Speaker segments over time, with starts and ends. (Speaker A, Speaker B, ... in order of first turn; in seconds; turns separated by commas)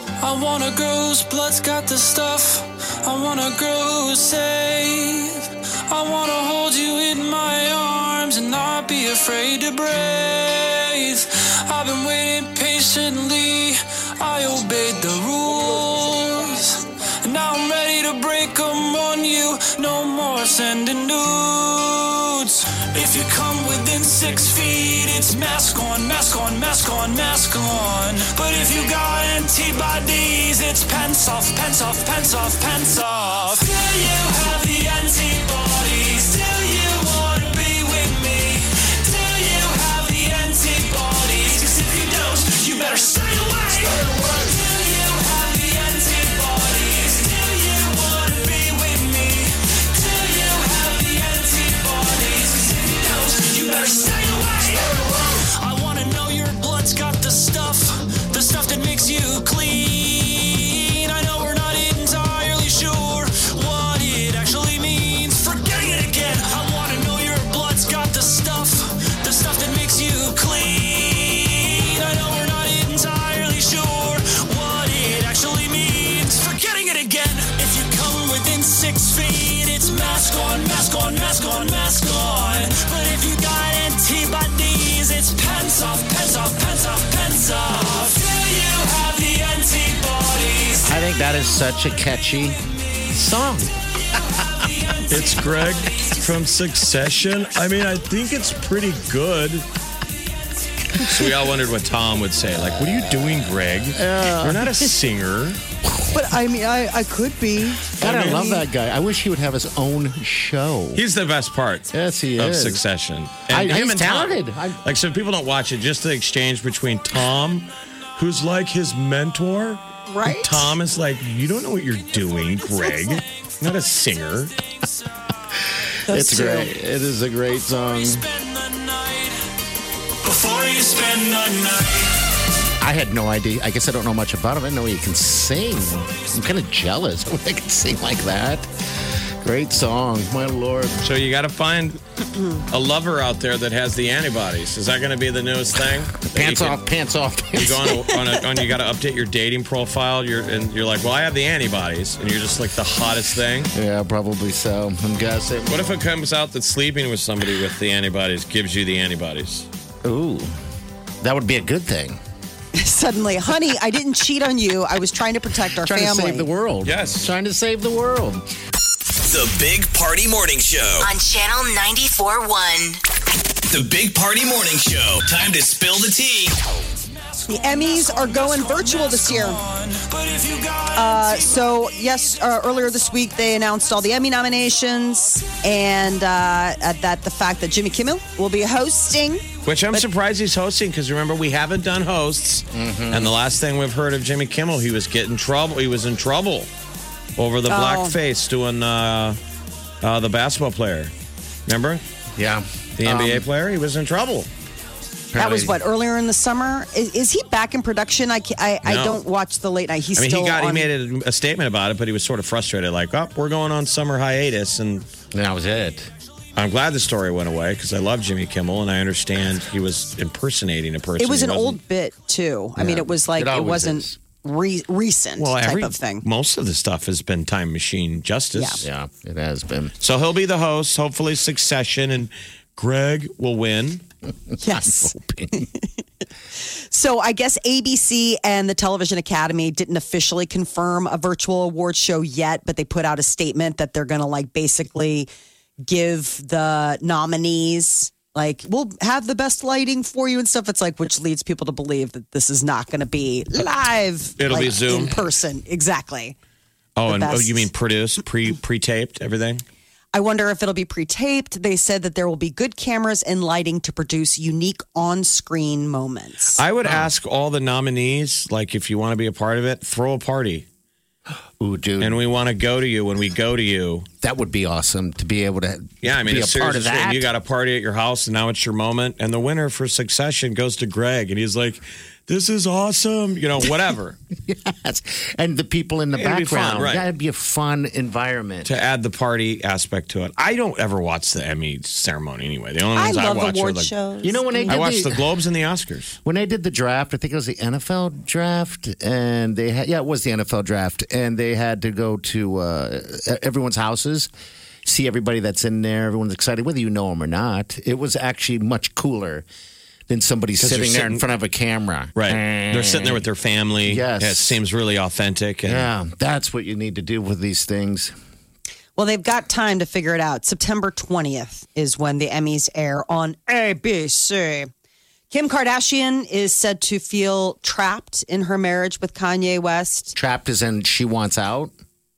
Speaker A: 0.2-91.0, Speaker B: 90.9-92.6, Speaker B: 93.1-93.8, Speaker A: 94.2-96.2, Speaker C: 95.1-99.7, Speaker C: 101.0-105.6, Speaker B: 103.9-104.9, Speaker D: 106.1-108.7, Speaker B: 108.0-111.0, Speaker C: 108.0-108.5, Speaker C: 110.9-124.5, Speaker B: 111.9-112.8, Speaker B: 113.5-114.8, Speaker D: 120.1-120.7, Speaker A: 122.8-123.2, Speaker D: 126.1-126.7, Speaker B: 126.1-128.2, Speaker A: 127.7-129.4, Speaker A: 130.2-132.3, Speaker B: 132.8-138.7, Speaker B: 139.4-141.0, Speaker C: 141.0-142.0, Speaker C: 142.7-146.8, Speaker B: 146.2-148.3, Speaker C: 147.6-153.7, Speaker B: 153.7-155.9, Speaker C: 155.7-159.7, Speaker B: 160.0-160.6, Speaker B: 161.2-162.2, Speaker D: 162.8-166.5, Speaker B: 165.8-168.4, Speaker C: 166.8-167.3, Speaker E: 169.2-171.1, Speaker F: 171.0-173.0, Speaker E: 173.7-176.6, Speaker A: 177.3-181.7, Speaker D: 177.5-179.6, Speaker D: 180.9-190.1, Speaker C: 189.7-196.7, Speaker B: 192.7-193.3, Speaker C: 197.4-199.4, Speaker D: 197.7-198.2, Speaker C: 200.0-201.1, Speaker C: 201.7-202.0, Speaker B: 202.4-203.5, Speaker C: 203.0-204.5, Speaker B: 205.3-205.8, Speaker D: 205.4-210.9, Speaker C: 208.8-209.2, Speaker C: 210.2-215.1, Speaker B: 215.3-216.1, Speaker C: 216.6-221.8, Speaker D: 221.2-226.2, Speaker B: 222.8-224.2, Speaker C: 225.4-228.8, Speaker D: 228.5-228.8, Speaker B: 228.8-229.9, Speaker C: 230.0-234.0, Speaker B: 234.5-235.7, Speaker D: 234.6-235.9, Speaker D: 236.8-245.3, Speaker D: 245.8-256.4, Speaker C: 254.4-255.2, Speaker C: 257.0-259.6, Speaker D: 257.1-257.7, Speaker D: 260.1-266.6, Speaker C: 266.6-270.7, Speaker B: 271.6-272.2, Speaker C: 272.0-274.1, Speaker B: 274.2-277.3, Speaker C: 276.0-284.2, Speaker B: 284.4-288.7, Speaker C: 286.1-287.1, Speaker C: 288.6-293.9, Speaker D: 293.0-294.8, Speaker B: 294.2-295.2, Speaker C: 294.7-296.2, Speaker B: 296.2-304.3, Speaker B: 304.9-309.4, Speaker B: 310.1-313.2, Speaker C: 310.6-311.2, Speaker C: 312.2-315.9, Speaker B: 313.9-314.6, Speaker B: 315.6-318.1, Speaker D: 319.0-324.7, Speaker D: 325.3-330.1, Speaker B: 330.1-331.7